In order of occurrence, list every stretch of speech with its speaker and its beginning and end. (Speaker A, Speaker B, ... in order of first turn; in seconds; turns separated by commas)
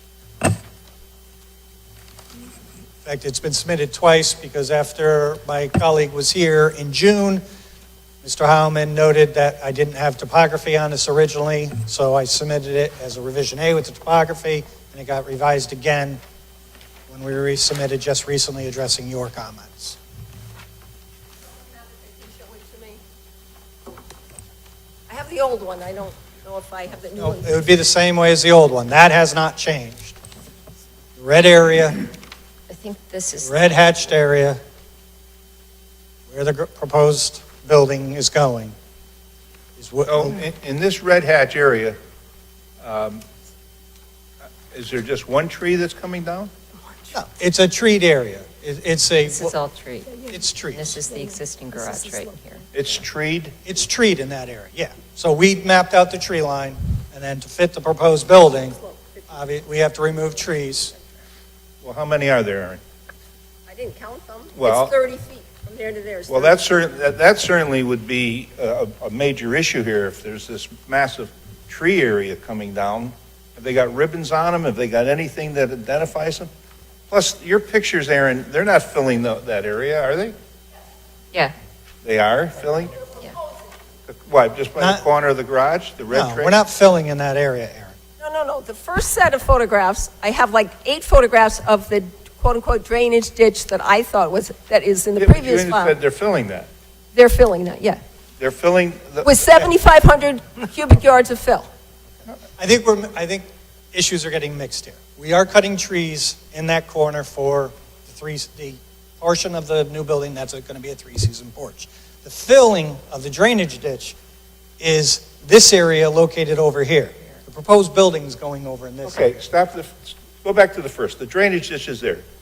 Speaker A: 3.0-7.4, Speaker A: 8.2-16.2, Speaker A: 17.1-20.0, Speaker B: 21.7-23.0, Speaker B: 25.1-27.6, Speaker A: 27.2-30.2, Speaker A: 31.2-32.1, Speaker C: 32.7-33.5, Speaker A: 33.4-34.6, Speaker A: 36.3-38.8, Speaker A: 39.8-40.4, Speaker D: 40.1-42.0, Speaker D: 42.8-43.2, Speaker D: 44.7-46.5, Speaker A: 47.1-49.6, Speaker C: 49.3-53.0, Speaker A: 50.3-51.0, Speaker D: 52.8-53.6, Speaker A: 53.6-58.8, Speaker A: 59.3-60.9, Speaker D: 61.8-62.8, Speaker B: 63.7-66.6, Speaker D: 64.6-64.9, Speaker D: 66.3-76.5, Speaker D: 77.1-80.3, Speaker D: 82.0-83.0, Speaker D: 84.1-86.5, Speaker A: 84.8-85.0, Speaker A: 86.1-88.0, Speaker B: 88.2-96.0, Speaker D: 95.2-96.7, Speaker B: 97.1-98.0, Speaker D: 98.4-99.7, Speaker B: 99.2-101.7, Speaker A: 102.6-114.2, Speaker A: 114.8-119.3, Speaker D: 119.0-122.2